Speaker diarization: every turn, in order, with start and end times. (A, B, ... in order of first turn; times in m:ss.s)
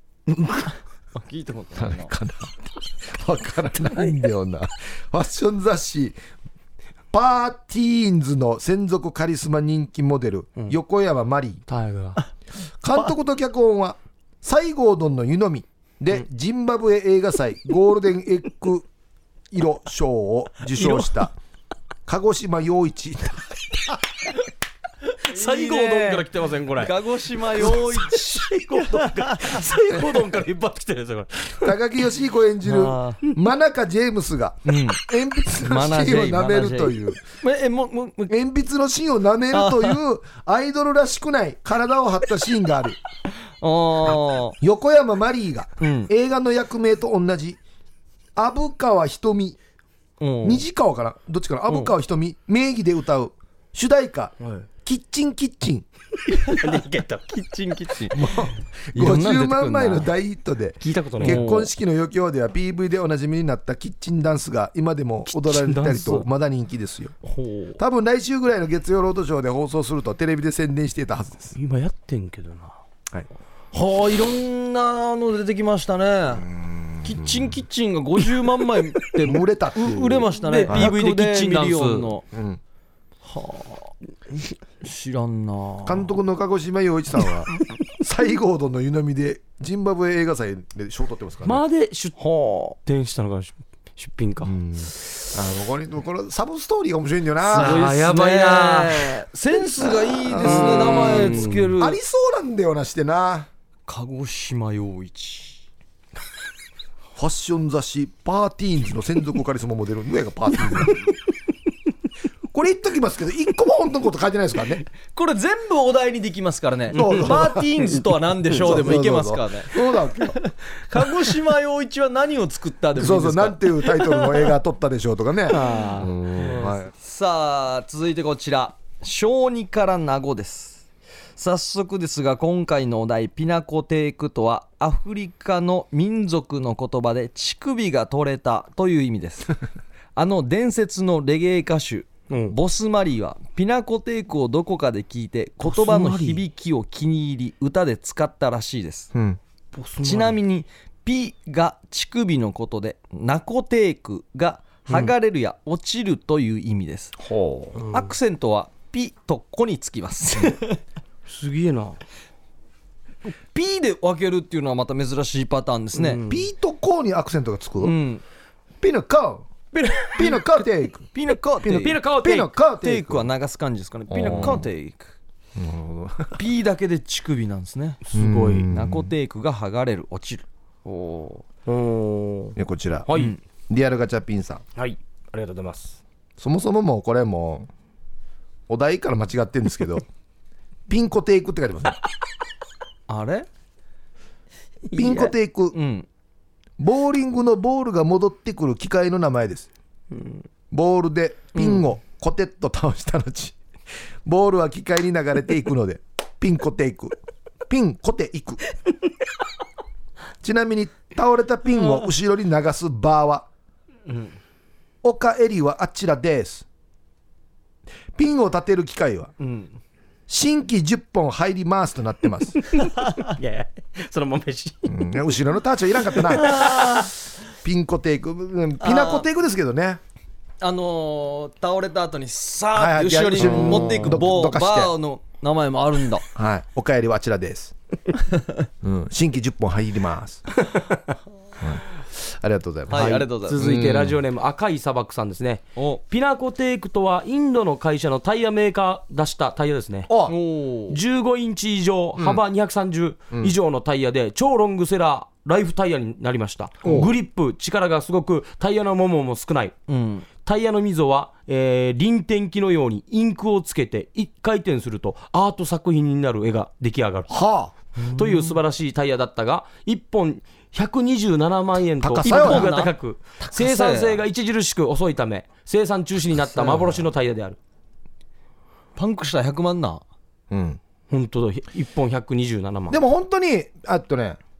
0:00.3-0:00.7 A
0:01.1-0:02.1 B
0:01.8-0:06.2 C
0:07.1-0:11.6 C
0:11.7-0:12.2 A
0:12.8-0:18.9 C
0:19.5-0:21.3 C
0:20.8-0:21.3 A
0:22.1-0:24.0 C
0:25.2-0:29.6 B
0:25.3-0:27.0 A
0:27.5-0:31.6 A
0:31.5-0:37.2 C
0:32.6-0:33.2 B
0:34.6-0:35.0 B
0:35.6-0:38.4 B
0:38.3-0:43.0 C
0:39.5-0:40.0 B
0:43.6-0:44.6 B
0:44.6-0:47.6 C
0:45.8-0:46.1 B
0:48.4-0:49.6 C
0:50.2-0:50.6 B
0:50.4-0:55.8 C
0:54.4-0:54.7 A
0:56.3-0:58.2 B
0:56.3-0:57.6 A
0:58.1-1:07.1 C
0:58.9-1:00.1 B
1:00.8-1:01.5 A
1:01.2-1:01.7 B
1:05.3-1:06.2 A
1:07.2-1:07.8 B
1:07.8-1:11.5 C
1:11.5-1:12.8 A
1:13.7-1:16.5 B
1:16.4-1:17.5 C
1:17.0-1:22.2 B
1:19.2-1:20.9 C
1:20.4-1:22.1 A
1:22.3-1:22.6 C
1:23.2-1:23.9 B
1:24.8-1:26.1 B
1:25.8-1:31.6 C
1:31.4-1:32.2 A
1:32.2-1:32.8 B
1:32.8-1:34.5 A
1:34.4-1:37.8 C
1:37.5-1:42.0 B
1:37.5-1:39.2 A
1:40.2-1:43.5 C
1:40.4-1:41.7 A
1:43.9-1:45.6 B
1:47.1-1:51.0 C
1:52.5-1:54.8 C
1:55.1-1:59.8 B
1:56.9-1:57.9 C
1:56.9-1:57.3 A
1:58.5-2:00.4 C
2:00.3-2:04.5 B
2:03.0-2:06.9 C
2:05.5-2:06.1 A
2:06.4-2:10.8 B
2:11.4-2:19.6 B
2:20.2-2:29.1 B
2:22.3-2:22.6 A
2:25.6-2:26.4 A
2:29.1-2:29.4 C
2:29.7-2:30.4 A
2:30.0-2:37.2 B
2:34.9-2:35.1 A
2:37.2-2:37.8 C
2:37.8-2:38.1 A
2:37.8-2:40.8 B
2:41.3-2:42.0 A
2:43.5-2:46.2 B
2:46.0-2:46.4 A
2:46.2-2:48.0 C
2:47.8-2:48.2 B
2:48.8-2:49.4 C
2:49.8-2:50.1 A
2:50.1-2:51.1 C
2:51.1-2:52.0 B
2:51.6-2:53.3 C
2:51.6-2:52.5 A
2:52.8-2:55.1 B
2:54.1-2:54.6 C
2:54.3-2:54.6 A
2:55.6-2:56.4 C
2:56.3-2:58.0 B
2:58.0-2:58.7 A
2:58.1-2:59.1 C
2:58.7-3:01.4 B
3:01.6-3:03.3 A
3:02.6-3:03.1 C
3:03.7-3:04.6 C
3:04.8-3:06.0 A
3:06.4-3:07.7 C
3:08.7-3:10.0 C
3:10.9-3:12.0 C
3:13.1-3:13.5 B
3:14.9-3:15.3 A
3:14.9-3:15.8 C
3:15.7-3:16.1 B
3:16.8-3:19.7 C
3:20.1-3:20.4 A
3:20.7-3:23.6 C
3:24.2-3:27.2 C
3:27.7-3:28.6 C
3:30.4-3:33.5 C
3:34.1-3:34.3 B
3:35.0-3:36.6 C
3:38.2-3:39.3 C
3:39.4-3:39.8 B
3:40.3-3:42.6 C
3:42.7-3:44.9 A
3:44.9-3:47.0 C
3:46.3-3:47.1 A
3:46.5-3:47.0 B
3:47.6-3:50.0 C
3:48.8-3:49.3 B
3:50.6-3:56.2 B
3:52.7-3:54.9 C
3:53.4-3:54.2 A
3:56.3-3:57.7 C
3:58.8-4:00.5 C
4:01.6-4:04.2 C
4:02.9-4:03.6 B
4:02.9-4:10.1 A
4:10.1-4:10.3 C
4:10.3-4:11.0 B
4:10.9-4:19.7 A
4:12.2-4:12.4 C
4:16.8-4:17.1 C
4:19.9-4:20.2 B
4:20.4-4:27.3 A
4:27.3-4:27.7 C
4:28.0-4:28.6 B
4:28.1-4:37.6 A
4:32.0-4:32.7 C
4:32.2-4:34.2 B
4:36.5-4:36.9 C
4:39.0-4:40.0 B
4:40.5-4:40.8 C
4:41.1-4:43.0 A
4:42.9-4:44.4 C